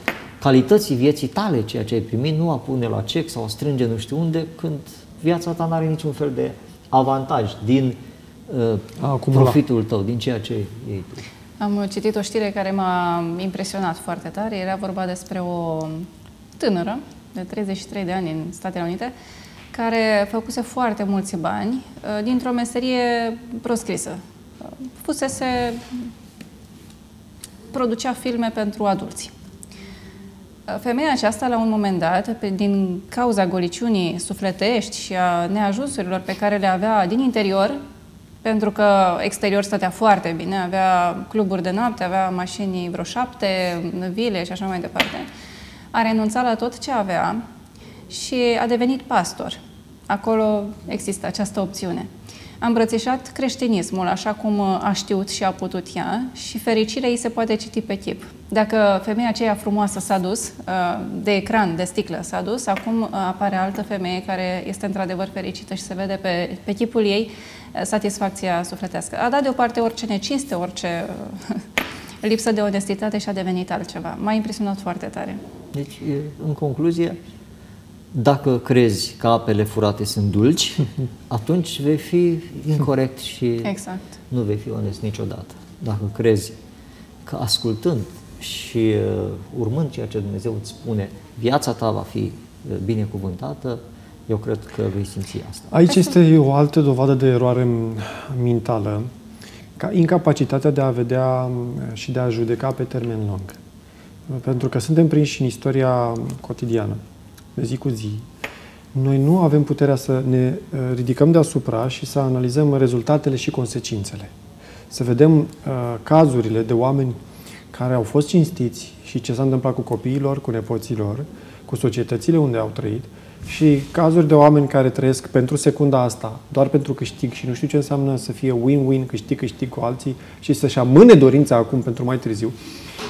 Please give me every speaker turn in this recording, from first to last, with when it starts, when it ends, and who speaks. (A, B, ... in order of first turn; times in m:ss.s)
0:00.4-0:11.2 A
0:09.0-0:09.6 B
0:11.6-0:16.1 C
0:16.6-0:19.1 C
0:19.7-0:26.1 C
0:27.7-0:29.3 C
0:30.7-0:37.8 C
0:38.4-0:45.3 C
0:45.9-0:47.4 C
0:48.1-0:49.6 C
0:50.1-0:52.1 C
0:52.6-1:11.6 C
1:12.2-1:15.4 C
1:15.7-1:17.2 A
1:18.1-1:23.7 A
1:23.6-1:24.0 C
1:24.3-1:26.5 A
1:27.2-1:35.7 A
1:35.7-1:39.1 B
1:39.8-1:43.6 B
1:44.3-1:47.0 B
1:47.6-1:48.2 B
1:48.9-1:54.3 B
1:54.9-1:57.2 B
1:57.7-2:12.5 B